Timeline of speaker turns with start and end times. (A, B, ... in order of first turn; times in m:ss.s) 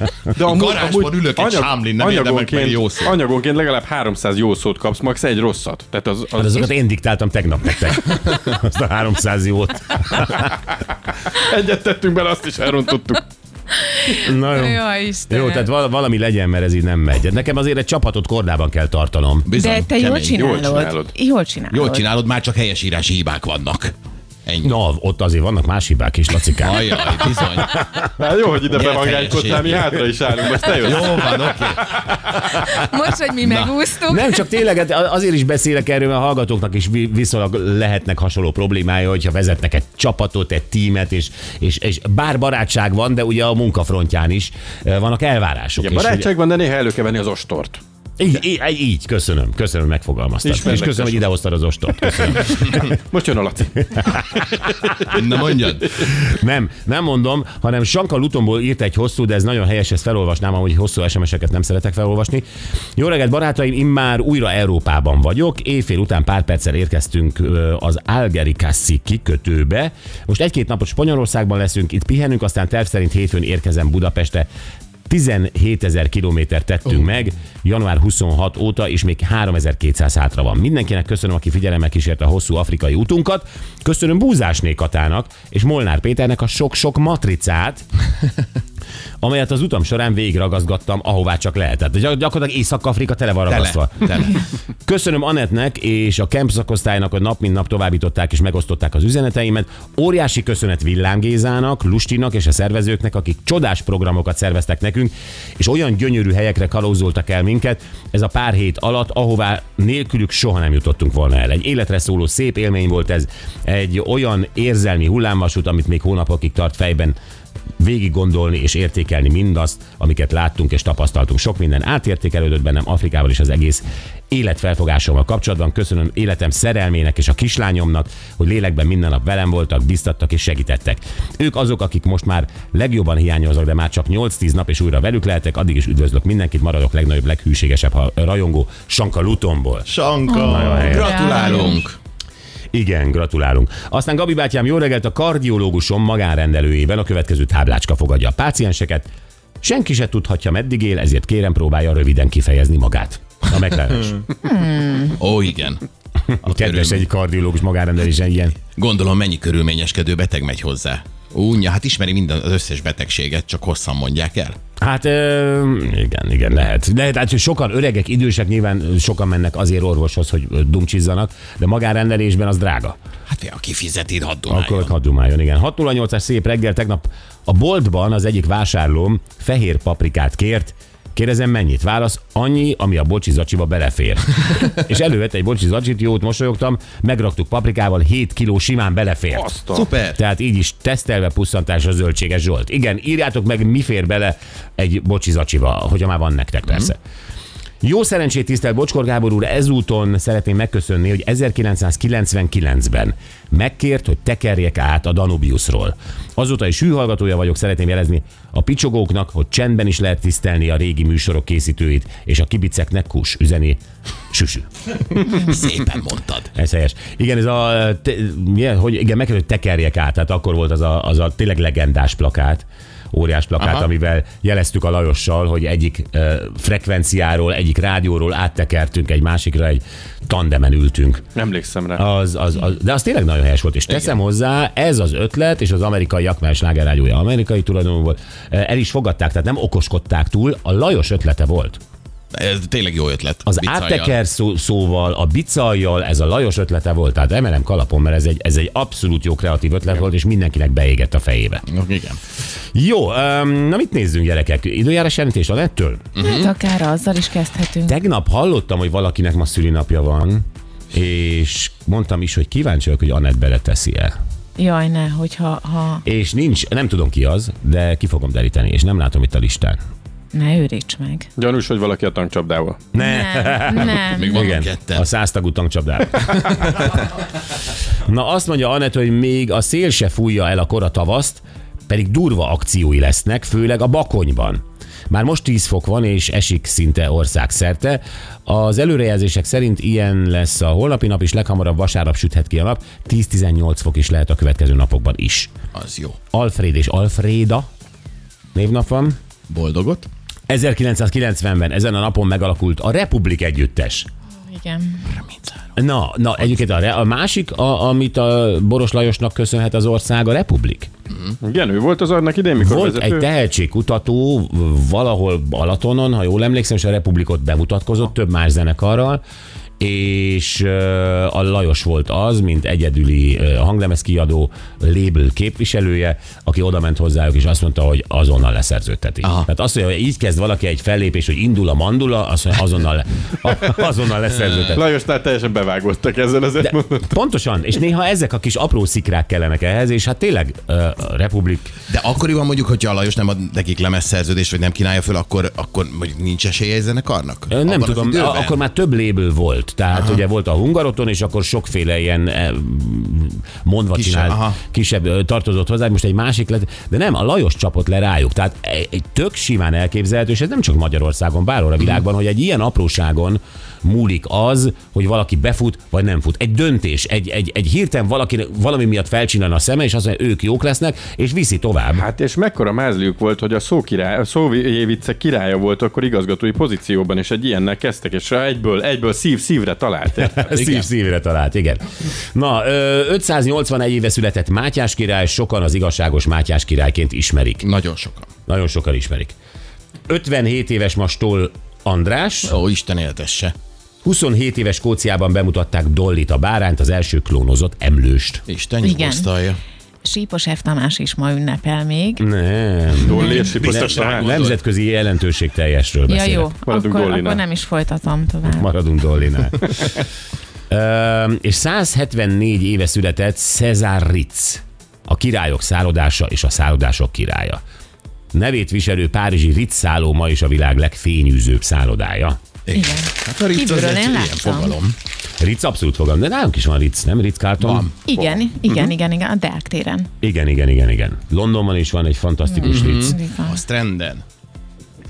0:00.3-0:06.7 A
0:00.4-0:03.2 B
0:06.4-0:10.6 C
0:11.2-0:13.2 A
0:13.7-0:15.6 D
0:14.2-0:19.5 C
0:19.4-0:20.7 B
0:19.5-0:22.0 D
0:20.3-0:21.1 A
0:21.7-0:23.9 B
0:24.4-0:24.7 B
0:24.6-0:28.1 C
0:26.5-0:27.8 B
0:28.1-0:31.5 A
0:28.7-0:30.0 B
0:30.6-0:32.0 B
0:32.5-0:34.4 D
0:33.4-0:33.7 B
0:34.0-0:46.3 C
0:45.8-0:47.8 A
0:48.2-0:52.8 C
0:50.4-0:51.3 A
0:52.0-0:55.2 A
0:55.1-0:56.0 B
0:56.0-1:02.4 C
1:03.0-1:14.5 C
1:15.1-1:27.8 C
1:29.2-1:34.3 C
1:33.5-1:34.4 B
1:34.8-1:57.2 C
1:57.8-2:21.5 C
2:19.9-2:22.0 B
2:20.3-2:21.8 D
2:22.7-2:29.1 C
2:29.6-2:34.2 C
2:34.4-2:35.2 D
2:35.1-2:35.8 B
2:36.3-2:38.6 C
2:36.4-2:37.0 B
2:38.8-2:44.6 B
2:44.8-2:53.0 C
2:53.3-2:54.9 B
2:54.5-3:09.5 C
3:09.3-3:09.9 A
3:09.7-3:10.2 B
3:10.1-3:17.0 C
3:17.8-3:33.8 C
3:34.3-3:34.7 C
3:35.2-3:36.5 B
3:36.5-3:51.2 C
3:43.6-3:43.9 B
3:51.3-3:52.0 A
3:52.0-4:01.8 C
3:53.9-3:54.1 B
4:02.3-4:04.1 B
4:03.4-4:11.6 C
4:11.6-4:12.2 B
4:12.7-4:16.1 C
4:16.1-4:16.5 B
4:16.2-4:18.0 D
4:17.9-4:24.1 C
4:24.6-4:26.0 D
4:26.0-4:29.8 C
4:30.3-4:31.3 D
4:31.4-4:32.8 A
4:32.9-4:37.0 C
4:32.9-4:34.6 D
4:34.0-4:35.0 B
4:36.4-4:36.9 B
4:38.0-4:55.5 C
4:55.7-4:56.2 B
4:56.3-4:57.7 C
4:58.5-4:59.2 C
4:59.5-5:00.1 B
5:00.5-5:04.1 C
5:04.4-5:05.0 D
5:05.1-5:05.6 B
5:05.8-5:10.9 C
5:11.4-5:13.2 A
5:12.6-5:19.2 C
5:19.8-5:34.8 C
5:29.2-5:29.5 B
5:34.5-5:34.8 B
5:34.7-5:37.1 A
5:36.6-5:41.7 C
5:41.9-5:48.6 B
5:47.5-6:12.0 C
5:49.9-5:50.2 B
5:53.9-5:54.6 B
6:11.9-6:20.8 A
6:20.2-6:27.6 C
6:27.6-6:28.3 B
6:28.5-6:29.3 C
6:30.1-6:32.6 C
6:32.4-6:33.5 B
6:34.0-6:38.4 C
6:38.5-6:39.6 B
6:38.8-6:39.3 D
6:40.0-6:42.2 D
6:42.2-6:46.5 C
6:43.0-6:44.4 A
6:43.5-6:44.6 B
6:46.1-6:48.7 D
6:46.6-6:47.4 A
6:48.4-6:49.8 C
6:50.7-6:57.6 C
6:58.3-7:02.4 C
7:02.6-7:04.9 B
7:02.7-7:04.7 D
7:05.4-7:07.9 C
7:07.6-7:08.0 B
7:08.0-7:10.1 D
7:10.2-7:13.2 C
7:12.6-7:14.2 B
7:12.6-7:13.6 D